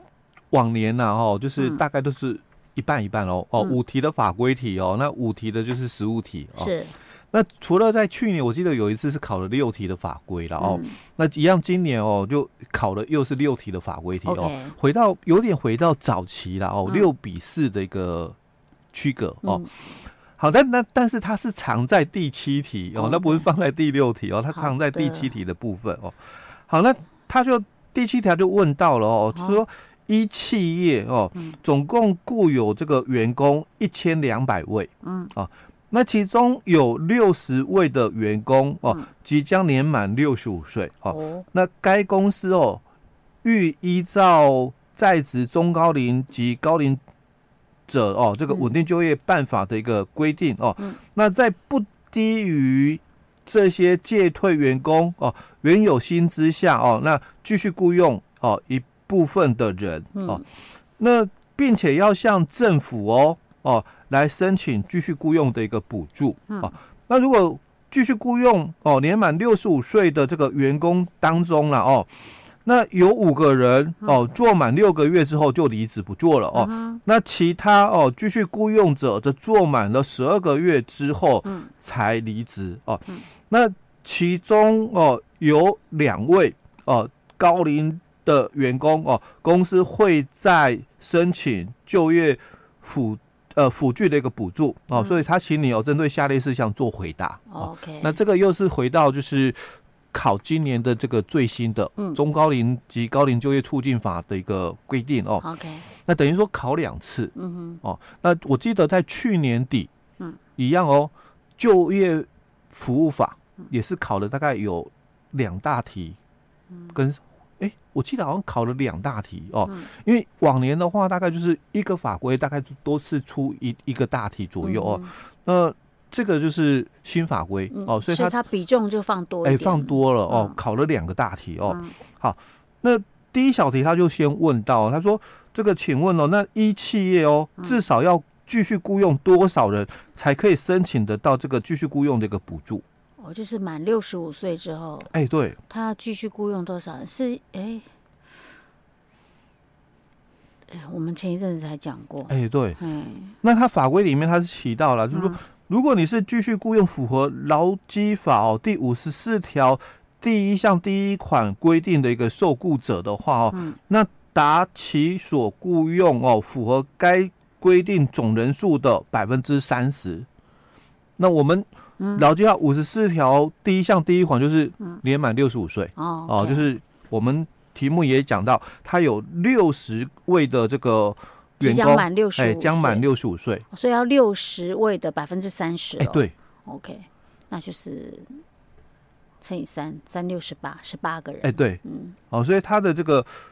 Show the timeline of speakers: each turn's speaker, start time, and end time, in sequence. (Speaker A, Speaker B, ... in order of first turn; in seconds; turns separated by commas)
Speaker A: 0.5-6.7, Speaker B: 6.6-6.9, Speaker A: 7.3-18.4, Speaker B: 10.6-11.0, Speaker B: 14.2-14.7, Speaker A: 18.9-19.6, Speaker B: 19.4-19.7, Speaker A: 20.4-42.8, Speaker B: 22.9-23.4, Speaker B: 24.5-25.3, Speaker B: 29.3-29.6, Speaker B: 35.0-35.3, Speaker B: 41.1-41.4, Speaker A: 43.4-47.0, Speaker A: 47.9-60.4, Speaker B: 60.1-60.4, Speaker A: 61.0-72.1, Speaker A: 72.6-99.6, Speaker B: 76.5-77.0, Speaker B: 81.4-81.7, Speaker B: 94.9-95.2, Speaker B: 97.5-98.2, Speaker A: 100.1-105.4, Speaker B: 105.4-105.8, Speaker A: 106.0-109.9, Speaker B: 107.3-107.8, Speaker A: 110.6-116.2, Speaker B: 116.7-117.0, Speaker A: 116.9-128.3, Speaker B: 124.6-125.1, Speaker B: 127.7-130.6, Speaker A: 129.4-142.8, Speaker B: 131.7-131.9, Speaker B: 143.2-145.1, Speaker A: 145.1-145.6, Speaker B: 145.7-147.8, Speaker B: 150.7-153.3, Speaker A: 152.3-152.8, Speaker A: 153.4-170.3, Speaker B: 155.1-155.4, Speaker B: 163.5-163.8, Speaker A: 171.2-183.6, Speaker B: 172.0-172.2, Speaker B: 176.0-176.7, Speaker B: 181.6-183.0, Speaker B: 183.7-188.4, Speaker A: 186.0-186.3, Speaker B: 189.4-192.1, Speaker A: 191.4-191.8, Speaker A: 192.3-193.3